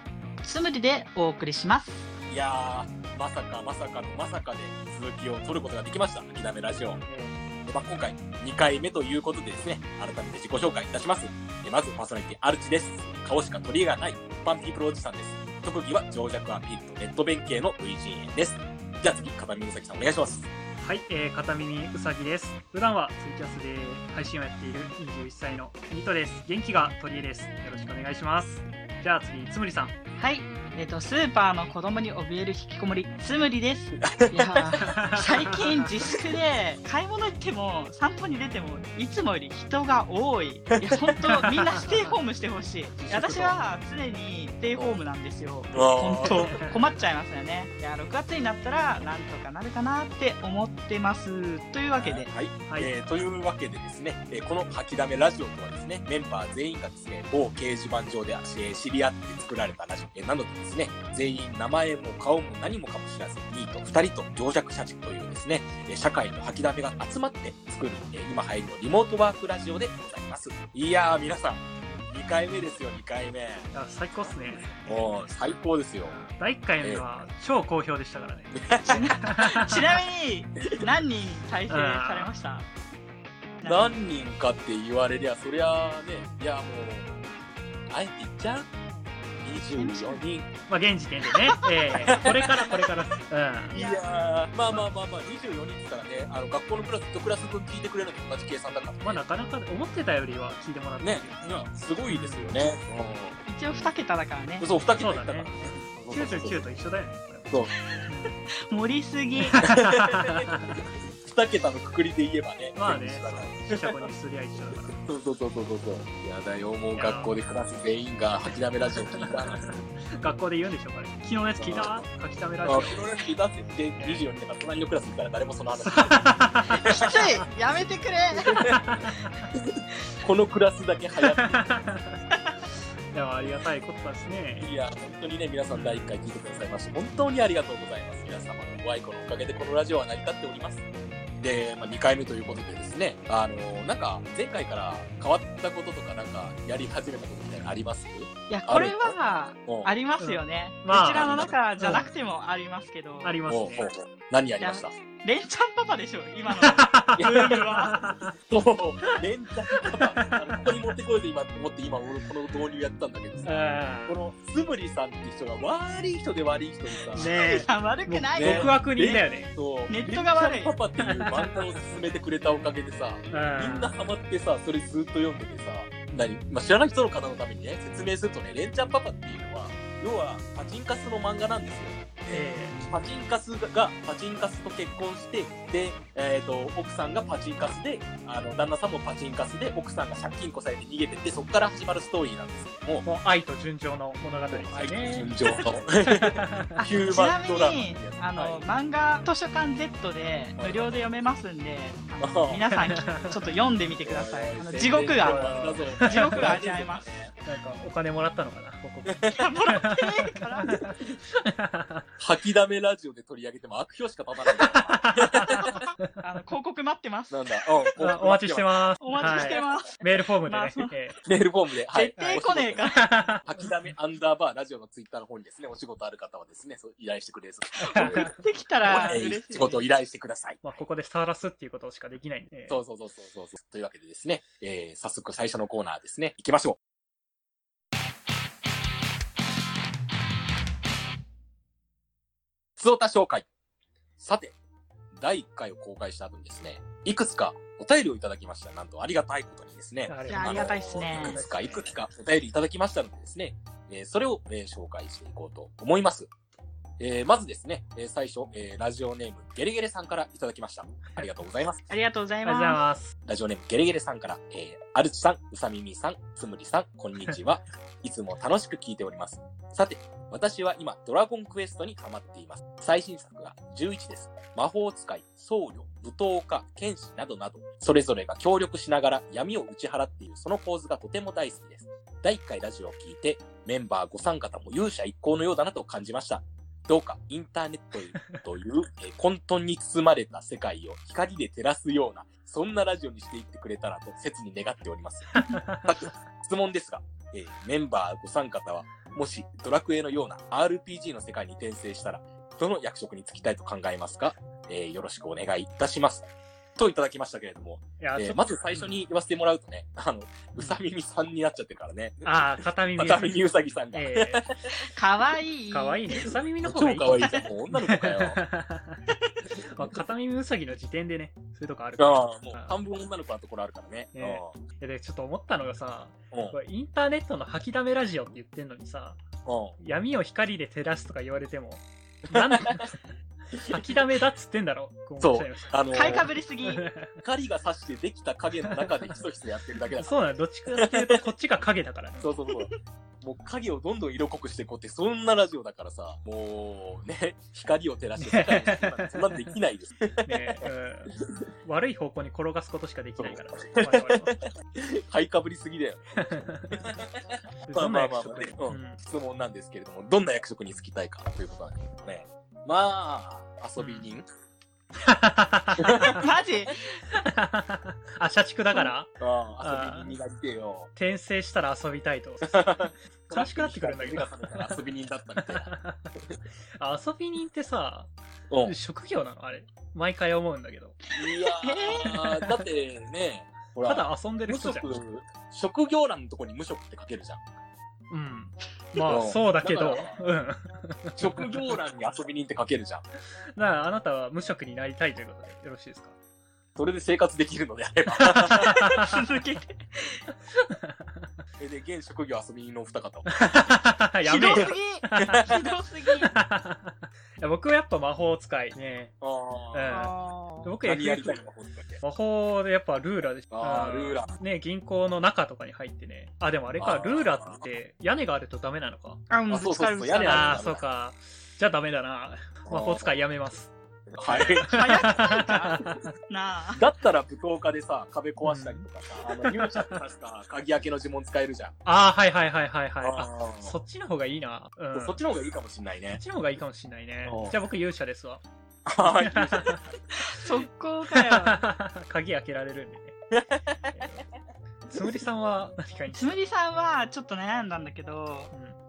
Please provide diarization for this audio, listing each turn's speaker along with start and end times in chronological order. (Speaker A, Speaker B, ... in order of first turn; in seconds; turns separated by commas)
Speaker A: 0.4-2.1, Speaker B: 2.3-7.0, Speaker C: 7.1-7.3, Speaker B: 7.7-20.5, Speaker C: 20.8-30.0, Speaker A: 30.2-52.3, Speaker B: 34.0-35.0, Speaker C: 34.8-35.9, Speaker C: 41.3-42.2, Speaker C: 43.0-43.6, Speaker B: 44.8-45.0, Speaker B: 45.7-46.6, Speaker C: 46.2-46.9, Speaker B: 52.0-73.7, Speaker C: 52.7-53.0, Speaker C: 73.7-75.2, Speaker B: 74.6-76.2, Speaker C: 76.1-80.0, Speaker B: 78.5-79.5, Speaker A: 78.8-82.7, Speaker C: 81.7-82.3, Speaker A: 83.6-83.9, Speaker B: 83.6-87.2, Speaker B: 87.9-88.7, Speaker B: 89.4-90.5, Speaker A: 89.7-90.2, Speaker C: 90.7-93.8, Speaker A: 91.4-91.7, Speaker B: 92.1-92.7, Speaker A: 92.7-93.0, Speaker B: 93.7-99.2, Speaker A: 93.7-94.3, Speaker C: 99.0-101.5, Speaker B: 101.0-103.4, Speaker C: 102.1-102.5, Speaker A: 103.5-104.7, Speaker B: 104.6-106.7, Speaker C: 105.0-108.4, Speaker B: 107.5-107.7, Speaker A: 108.6-109.6, Speaker C: 109.4-110.8, Speaker B: 109.6-110.5, Speaker B: 111.2-114.1, Speaker C: 112.8-115.0, Speaker B: 115.0-119.8, Speaker C: 117.0-117.3, Speaker C: 118.5-123.0, Speaker B: 121.6-122.0, Speaker B: 122.7-127.4, Speaker C: 124.0-124.2, Speaker C: 125.9-127.5, Speaker A: 126.8-128.8, Speaker B: 128.3-128.8, Speaker C: 128.7-129.5, Speaker B: 129.5-131.7, Speaker C: 131.2-132.2, Speaker C: 133.1-134.7, Speaker B: 134.6-140.8, Speaker C: 135.7-136.2, Speaker B: 141.4-149.9, Speaker A: 148.5-153.4, Speaker C: 150.2-152.1, Speaker B: 151.2-151.6, Speaker C: 153.2-153.9, Speaker B: 153.5-154.9, Speaker A: 154.6-158.0, Speaker C: 156.5-158.3, Speaker B: 157.2-157.6, Speaker B: 158.5-167.3, Speaker C: 159.9-160.8, Speaker C: 163.4-164.2, Speaker A: 167.1-168.8, Speaker C: 167.1-169.5, Speaker B: 168.4-193.1, Speaker A: 169.9-170.7, Speaker C: 171.0-171.7, Speaker C: 173.3-174.0, Speaker C: 182.3-182.9, Speaker C: 193.0-196.8, Speaker B: 194.5-198.3, Speaker A: 196.8-207.1, Speaker B: 200.6-201.0, Speaker B: 202.2-202.6, Speaker C: 202.7-203.5, Speaker B: 204.0-207.3, Speaker C: 205.2-206.6, Speaker C: 207.4-212.1, Speaker B: 209.1-209.4, Speaker A: 209.3-210.8, Speaker B: 210.7-211.1, Speaker B: 212.2-215.8, Speaker C: 214.5-216.1, Speaker A: 215.7-217.4, Speaker B: 217.3-219.4, Speaker C: 218.0-221.2, Speaker A: 219.0-220.9, Speaker B: 221.2-228.3, Speaker A: 221.9-223.1, Speaker C: 222.4-223.7, Speaker C: 227.8-228.4, Speaker A: 227.9-229.8, Speaker B: 228.8-230.7, Speaker C: 230.6-232.8, Speaker B: 232.7-236.8, Speaker B: 242.8-243.5, Speaker B: 244.2-244.6, Speaker B: 245.1-256.3, Speaker C: 250.1-251.9, Speaker A: 250.3-251.4, Speaker B: 257.0-261.8, Speaker A: 261.9-262.8, Speaker C: 262.4-263.1, Speaker B: 263.3-314.6, Speaker C: 288.2-288.4, Speaker C: 295.3-296.1, Speaker C: 308.0-308.9, Speaker C: 312.2-314.5, Speaker A: 314.8-316.3, Speaker C: 315.7-319.0, Speaker B: 316.6-318.4, Speaker A: 317.2-317.5, Speaker C: 319.6-322.8, Speaker B: 322.0-324.6, Speaker C: 324.1-329.2, Speaker B: 329.5-329.8, Speaker C: 329.8-333.0, Speaker B: 332.2-332.9, Speaker B: 333.6-334.0, Speaker C: 333.7-337.1, Speaker B: 335.2-336.3, Speaker A: 335.9-336.8, Speaker B: 337.2-340.1, Speaker C: 338.7-338.9, Speaker C: 340.0-342.4, Speaker B: 340.8-341.2, Speaker B: 342.2-351.4, Speaker C: 348.2-349.5, Speaker C: 350.2-354.4, Speaker B: 353.2-364.3, Speaker C: 356.2-356.9, Speaker C: 357.7-359.0, Speaker C: 363.8-364.1, Speaker C: 365.0-366.2, Speaker B: 365.8-366.3, Speaker A: 366.0-367.0, Speaker C: 367.1-370.1, Speaker B: 369.2-370.9, Speaker C: 371.0-372.6, Speaker B: 372.4-375.7, Speaker C: 373.3-374.8, Speaker C: 375.5-376.1, Speaker C: 376.8-378.1, Speaker C: 378.7-381.0, Speaker A: 381.1-382.1, Speaker B: 381.1-387.4, Speaker C: 382.0-382.6, Speaker C: 383.8-384.9, Speaker C: 388.1-391.8, Speaker B: 389.1-390.2, Speaker B: 391.2-393.0, Speaker C: 393.6-396.1, Speaker B: 396.8-398.8, Speaker C: 398.2-399.2, Speaker A: 398.6-400.2, Speaker C: 400.5-401.3, Speaker B: 401.6-403.3, Speaker C: 403.3-405.6, Speaker A: 404.3-406.3, Speaker B: 404.5-405.5, Speaker C: 406.1-409.1, Speaker B: 409.2-410.0, Speaker C: 409.7-410.1, Speaker A: 409.9-410.7, Speaker C: 410.6-411.4, Speaker B: 410.8-412.0, Speaker C: 412.0-419.2, Speaker B: 413.5-414.3, Speaker B: 416.8-417.6, Speaker A: 419.3-420.6, Speaker B: 419.5-420.8, Speaker C: 420.3-423.7, Speaker B: 422.7-423.1, Speaker B: 424.1-425.0, Speaker C: 424.3-426.1, Speaker A: 424.6-426.8, Speaker B: 426.8-431.8, Speaker C: 428.4-430.0, Speaker C: 431.9-435.2, Speaker B: 433.0-433.8, Speaker B: 434.9-436.2, Speaker C: 436.1-438.4, Speaker B: 437.2-437.6, Speaker B: 438.9-439.9, Speaker C: 439.0-439.8, Speaker A: 440.2-441.6, Speaker C: 441.1-443.2, Speaker B: 443.3-444.1, Speaker C: 443.9-444.2, Speaker C: 444.9-446.4, Speaker A: 446.1-448.5, Speaker C: 448.5-448.8